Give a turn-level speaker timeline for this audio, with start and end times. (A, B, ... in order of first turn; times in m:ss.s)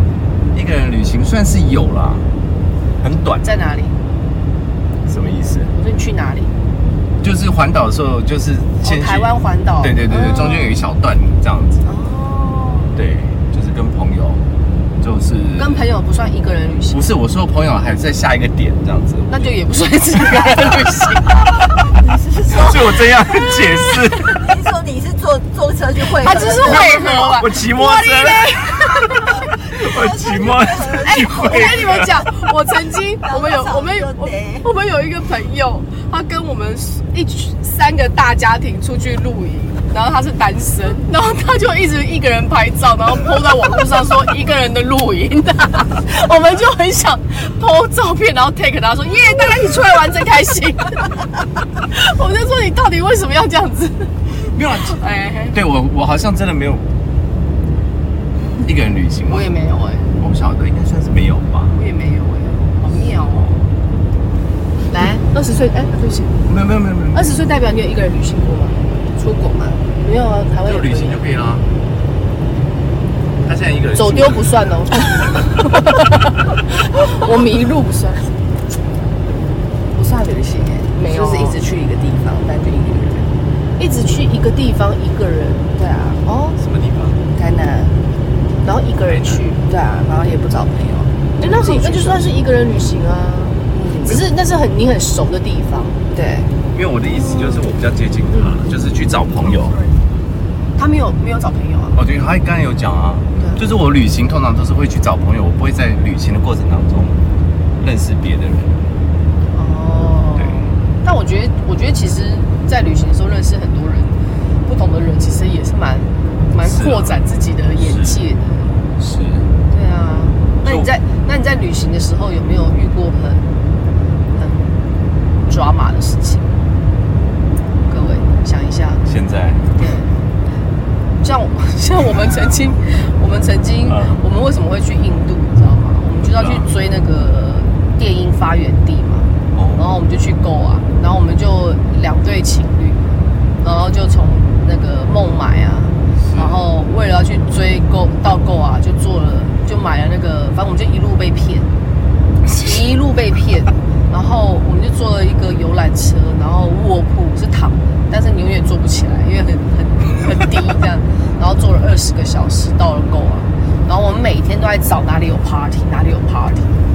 0:00.5-0:02.3 A
0:03.0-0:03.6 A
0:03.4-0:04.0 B
0:05.1-0:05.7 A
0:05.7-0:06.5 B
0:07.2-0:11.9 A
0:08.8-0:10.8 B
0:11.8-0:12.9 B
0:13.0-0:14.4 A
0:15.0-0:15.9 A
0:15.6-0:17.0 B
0:16.9-0:19.6 A
0:19.3-0:21.5 B
0:20.3-0:20.7 A
0:21.9-0:27.3 C
0:22.5-0:24.5 A
0:26.2-0:29.3 B
0:26.5-0:28.8 A
0:29.5-0:32.0 C
0:29.7-0:32.2 A
0:31.0-0:51.2 B
0:33.2-0:34.7 C
0:51.8-0:54.1 B
0:54.4-0:55.0 A
0:54.8-0:55.6 B
0:55.5-0:56.9 A
0:58.6-0:59.5 A
0:59.3-1:00.1 B
1:00.2-1:01.8 A
1:01.7-1:03.5 B
1:03.2-1:03.6 A
1:04.9-1:06.4 B
1:06.5-1:07.3 A
1:07.1-1:11.2 B
1:10.6-1:11.7 A
1:13.4-1:14.5 A
1:14.0-1:18.3 B
1:20.0-1:23.3 D
1:21.0-1:21.6 B
1:23.8-1:25.7 B
1:25.8-1:26.2 D
1:26.2-1:26.6 B
1:26.6-1:27.2 A
1:27.4-1:28.0 D
1:28.6-1:29.6 B
1:29.1-1:29.4 A
1:29.6-1:32.2 D
1:31.4-1:36.0 B
1:33.7-1:34.2 D
1:36.1-1:36.5 D
1:36.7-1:39.8 A
1:37.1-1:37.7 B
1:38.3-1:38.6 B
1:40.8-1:42.0 B
1:42.0-1:47.2 A
1:43.4-1:43.6 B
1:47.8-1:48.8 A
1:49.5-1:58.8 B
1:50.4-1:50.7 A
1:56.6-1:57.2 A
1:57.8-1:58.2 A
1:59.0-1:59.5 A
1:59.7-2:03.5 B
2:00.6-2:00.9 A
2:04.4-2:04.8 B
2:05.5-2:06.5 B
2:07.9-2:09.0 B
2:09.0-2:10.0 A
2:09.8-2:10.1 B
2:11.2-2:31.7 B
2:13.9-2:14.2 A
2:16.2-2:16.7 A
2:19.5-2:20.0 A
2:26.2-2:26.7 A
2:32.5-2:46.8 B